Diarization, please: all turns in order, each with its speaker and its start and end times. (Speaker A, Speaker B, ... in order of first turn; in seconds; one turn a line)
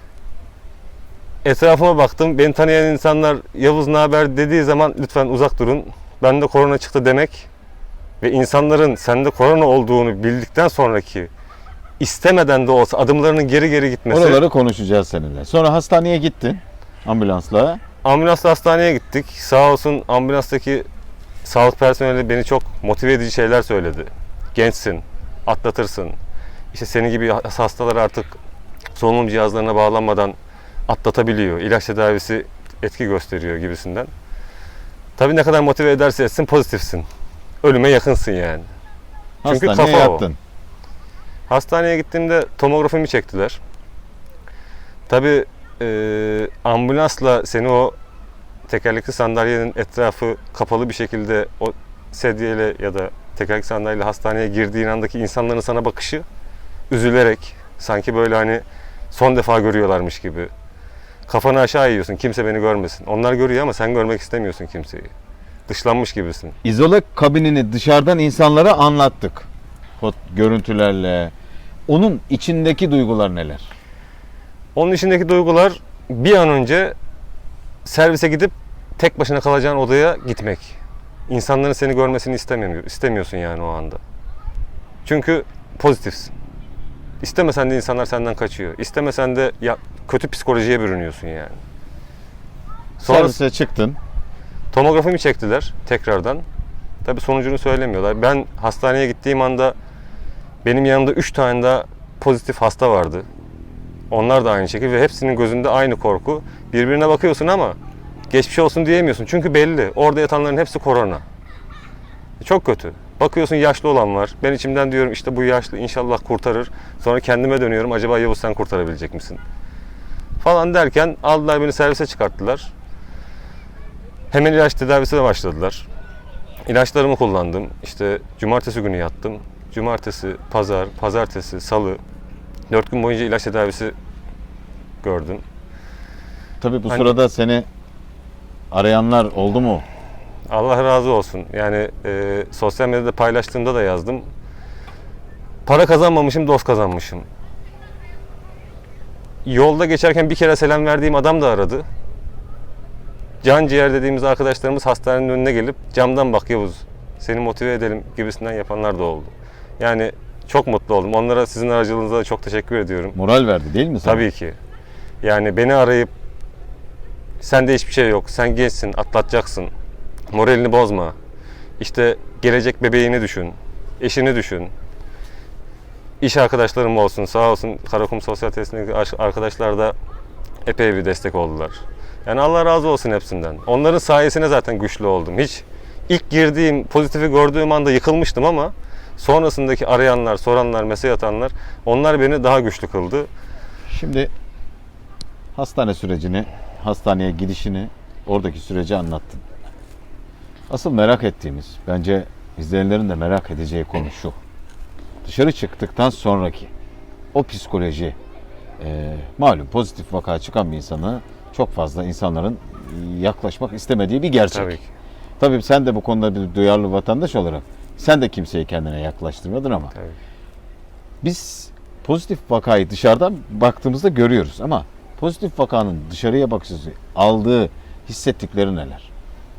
Speaker A: 1.4-7.5
Speaker A: 8.2-11.3
Speaker A: 12.0-14.4
Speaker B: 14.1-17.8
Speaker A: 18.0-20.9
Speaker A: 21.4-26.2
Speaker A: 26.7-28.4
Speaker A: 28.9-34.1
Speaker A: 35.2-37.0
Speaker A: 37.6-38.7
Speaker B: 39.4-40.4
Speaker A: 39.5-40.2
Speaker A: 41.5-43.6
Speaker A: 45.1-48.0
Speaker A: 48.7-56.2
Speaker A: 56.9-60.5
Speaker A: 61.3-65.1
Speaker A: 65.7-66.5
Speaker B: 66.6-69.5
Speaker B: 70.0-71.3
Speaker B: 71.9-73.7
Speaker A: 74.7-77.0
Speaker A: 77.8-80.8
Speaker A: 81.3-84.0
Speaker A: 85.0-86.3
Speaker A: 87.2-91.6
Speaker A: 93.0-93.3
Speaker B: 93.0-94.0
Speaker A: 94.7-96.4
Speaker A: 97.0-99.7
Speaker A: 100.6-103.3
Speaker A: 104.1-107.8
Speaker A: 108.3-111.2
Speaker A: 112.4-119.4
Speaker A: 120.4-122.7
Speaker A: 124.3-125.9
Speaker A: 126.7-132.0
Speaker A: 132.7-133.9
Speaker A: 135.0-135.4
Speaker B: 136.6-137.7
Speaker A: 136.9-137.2
Speaker B: 138.7-139.8
Speaker A: 140.5-144.3
Speaker A: 145.7-147.3
Speaker A: 149.4-151.8
Speaker A: 153.4-163.2
Speaker B: 163.1-164.3
Speaker A: 164.0-164.6
Speaker A: 165.2-166.1
Speaker A: 167.4-169.7
Speaker A: 170.3-171.2
Speaker A: 171.8-174.7
Speaker A: 176.2-179.9
Speaker A: 180.6-193.3
Speaker B: 193.9-194.3
Speaker B: 195.5-199.4
Speaker B: 200.7-204.4
Speaker B: 205.2-206.7
Speaker B: 207.3-208.2
Speaker B: 208.8-214.8
Speaker A: 214.5-214.9
Speaker B: 215.4-219.9
Speaker B: 221.2-229.1